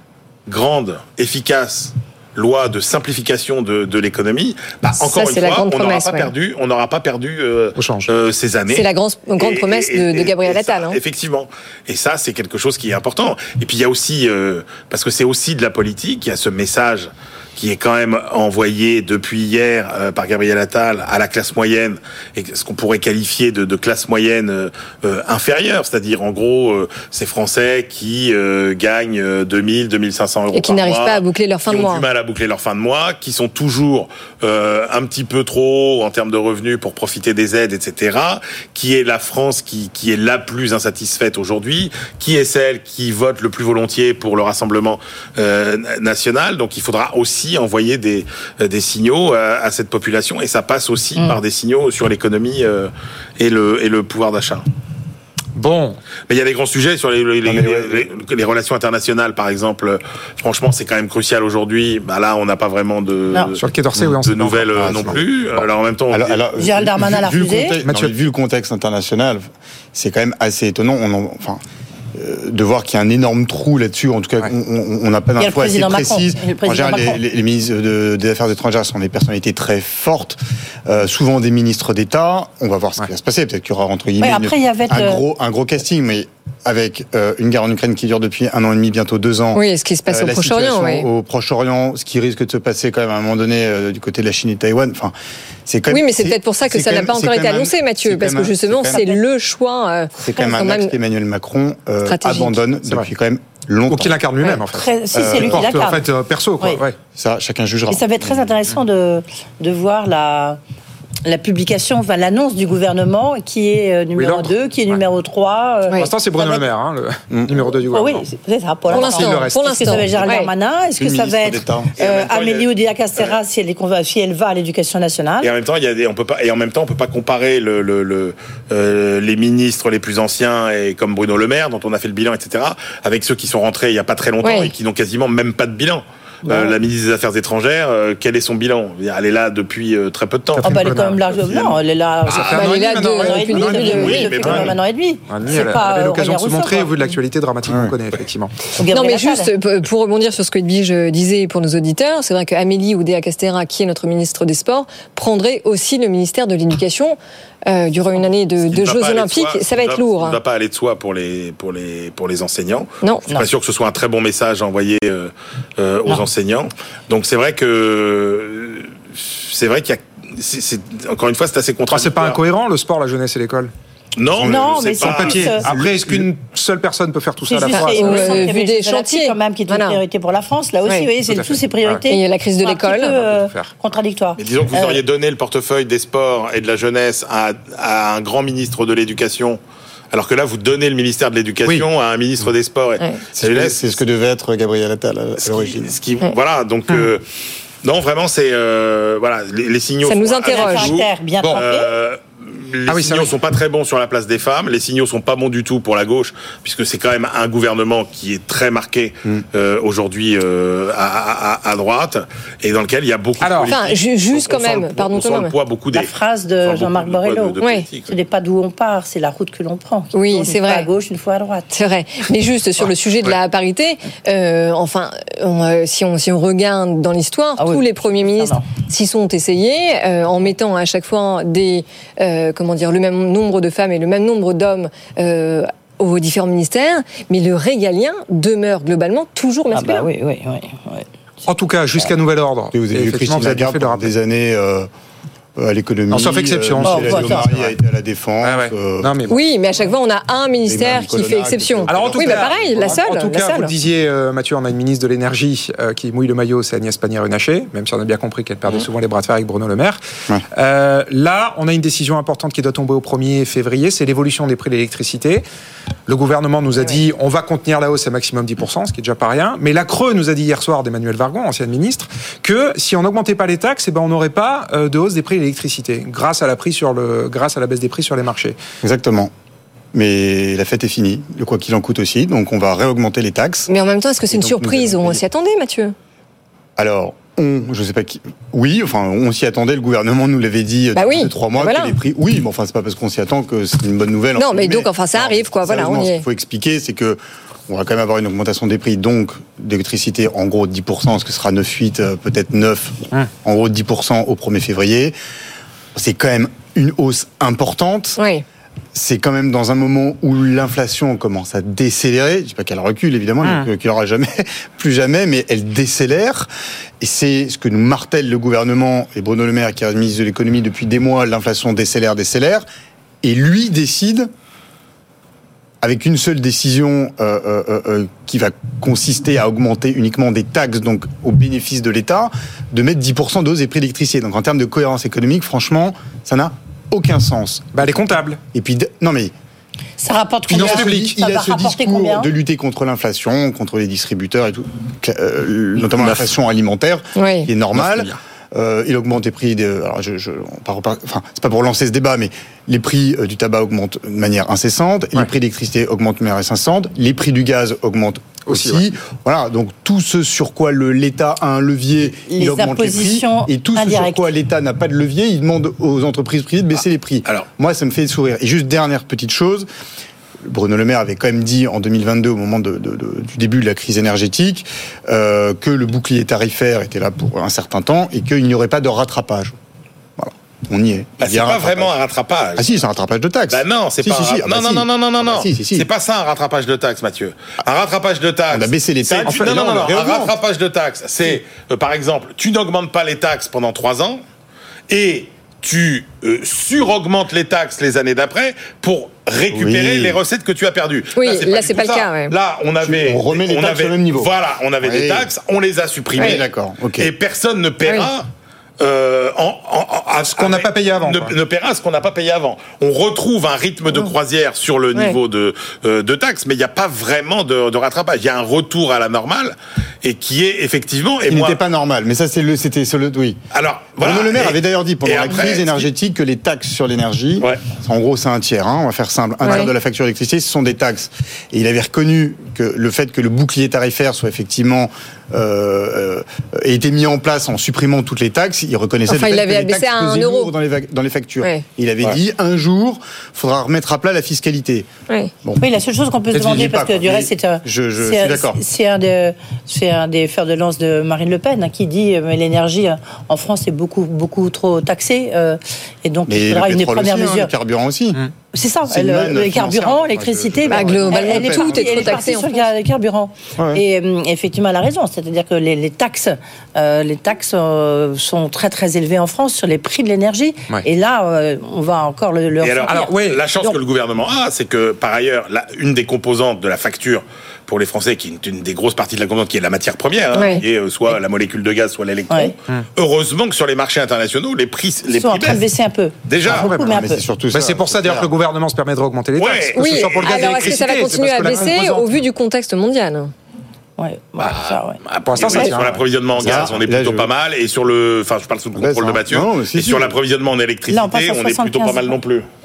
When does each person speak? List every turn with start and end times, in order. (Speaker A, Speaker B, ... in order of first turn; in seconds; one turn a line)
Speaker A: 0.5-54.6
Speaker B: 4.9-6.3
Speaker C: 7.7-8.1
Speaker B: 8.7-11.0
Speaker B: 30.5-32.0
Speaker C: 55.5-56.0
Speaker A: 56.3-66.4
Speaker D: 57.4-58.1
Speaker E: 63.3-63.5
Speaker C: 63.6-65.2
Speaker D: 64.8-71.6
Speaker E: 66.6-67.8
Speaker C: 67.8-68.1
Speaker D: 72.1-95.1
Speaker E: 75.4-77.2
Speaker E: 84.2-85.2
Speaker B: 89.5-91.1
Speaker D: 95.7-99.1
Speaker B: 95.9-100.9
Speaker E: 98.9-99.2
Speaker D: 100.2-104.2
Speaker B: 102.0-102.7
Speaker C: 102.8-103.1
Speaker C: 103.9-107.0
Speaker E: 104.7-106.1
Speaker D: 105.1-105.8
Speaker D: 107.1-108.5
Speaker E: 107.9-110.6
Speaker E: 111.2-116.7
Speaker C: 114.1-115.0
Speaker C: 116.0-118.2
Speaker D: 117.3-117.8
Speaker E: 117.9-125.5
Speaker C: 118.9-119.6
Speaker B: 118.9-120.5
Speaker D: 121.0-121.9
Speaker A: 122.0-123.3
Speaker A: 125.4-141.0
Speaker B: 134.4-134.7
Speaker E: 136.4-136.8
Speaker E: 140.6-147.1
Speaker C: 140.6-141.4
Speaker C: 142.2-144.7
Speaker B: 142.5-144.3
Speaker A: 143.5-144.8
Speaker D: 143.9-144.7
Speaker C: 145.3-148.5
Speaker D: 147.7-147.9
Speaker E: 148.8-149.5
Speaker B: 148.9-157.2
Speaker B: 157.7-160.4
Speaker A: 158.6-172.4
Speaker B: 163.0-163.3
Speaker C: 171.9-173.7
Speaker A: 174.2-175.6
Speaker D: 174.3-175.0
Speaker E: 174.4-175.7
Speaker C: 175.0-178.5
Speaker D: 175.7-176.2
Speaker E: 177.4-185.0
Speaker B: 177.7-180.0
Speaker B: 180.8-181.1
Speaker C: 181.2-182.0
Speaker B: 182.1-183.2
Speaker C: 183.1-184.0
Speaker A: 184.4-189.6
Speaker A: 190.1-194.0
Speaker B: 193.0-193.2
Speaker D: 193.3-195.9
Speaker A: 195.4-197.2
Speaker A: 197.8-218.2
Speaker B: 200.0-201.0
Speaker E: 200.4-201.9
Speaker C: 202.9-203.3
Speaker C: 213.4-213.8
Speaker B: 213.7-215.5
Speaker E: 215.9-221.7
Speaker B: 217.6-217.9
Speaker B: 220.1-220.9
Speaker B: 221.7-240.1
Speaker E: 227.6-228.7
Speaker E: 239.7-241.1
Speaker C: 241.5-244.1
Speaker D: 242.7-244.9
Speaker D: 245.6-249.4
Speaker C: 246.1-247.6
Speaker E: 246.8-247.5
Speaker C: 248.4-249.4
Speaker B: 249.3-253.7
Speaker D: 250.7-253.0
Speaker C: 251.9-260.0
Speaker C: 260.6-265.4
Speaker C: 266.1-278.6
Speaker D: 278.8-279.3
Speaker D: 279.9-283.7
Speaker B: 283.7-285.9
Speaker D: 284.3-285.2
Speaker D: 286.8-305.1
Speaker B: 290.9-292.0
Speaker B: 294.4-296.2
Speaker D: 305.9-308.2
Speaker B: 308.2-308.4
Speaker D: 308.9-316.5
Speaker C: 313.4-313.7
Speaker D: 317.0-322.6
Speaker D: 323.2-324.3
Speaker D: 325.8-339.3
Speaker C: 337.7-338.4
Speaker E: 340.0-342.3
Speaker C: 340.5-341.2
Speaker D: 340.5-369.7
Speaker B: 347.1-347.5
Speaker C: 347.7-348.1
Speaker C: 358.4-358.8
Speaker E: 362.3-364.3
Speaker D: 370.4-379.6
Speaker D: 380.2-381.9
Speaker A: 381.2-382.8
Speaker D: 382.6-385.9
Speaker A: 383.5-394.2
Speaker D: 388.5-390.3
Speaker C: 389.2-389.9
Speaker A: 394.9-406.4
Speaker D: 399.5-400.2
Speaker B: 401.1-402.3
Speaker D: 402.8-405.3
Speaker D: 406.2-407.1
Speaker A: 406.9-408.3
Speaker B: 407.8-408.1
Speaker A: 408.8-421.6
Speaker C: 410.1-411.4
Speaker D: 421.3-423.4
Speaker A: 423.5-425.9
Speaker D: 424.0-444.9
Speaker A: 427.4-427.7
Speaker B: 429.4-429.7
Speaker B: 439.1-440.5
Speaker D: 445.4-445.7
Speaker E: 445.6-457.5
Speaker D: 446.3-448.6
Speaker D: 456.2-458.2
Speaker E: 458.5-473.8
Speaker D: 458.9-462.3
Speaker B: 460.7-462.7
Speaker D: 463.6-463.8
Speaker A: 472.6-485.6
Speaker C: 472.9-473.4
Speaker B: 480.3-480.6
Speaker E: 482.3-482.5
Speaker E: 485.1-487.2
Speaker A: 486.2-486.7
Speaker C: 486.5-486.9
Speaker D: 486.6-488.3
Speaker C: 487.5-492.2
Speaker A: 489.4-491.6
Speaker B: 489.8-493.3
Speaker E: 494.0-495.0
Speaker A: 494.4-502.4
Speaker C: 495.2-495.9
Speaker B: 495.5-495.7
Speaker D: 496.4-497.3
Speaker D: 498.7-500.1
Speaker E: 500.9-502.2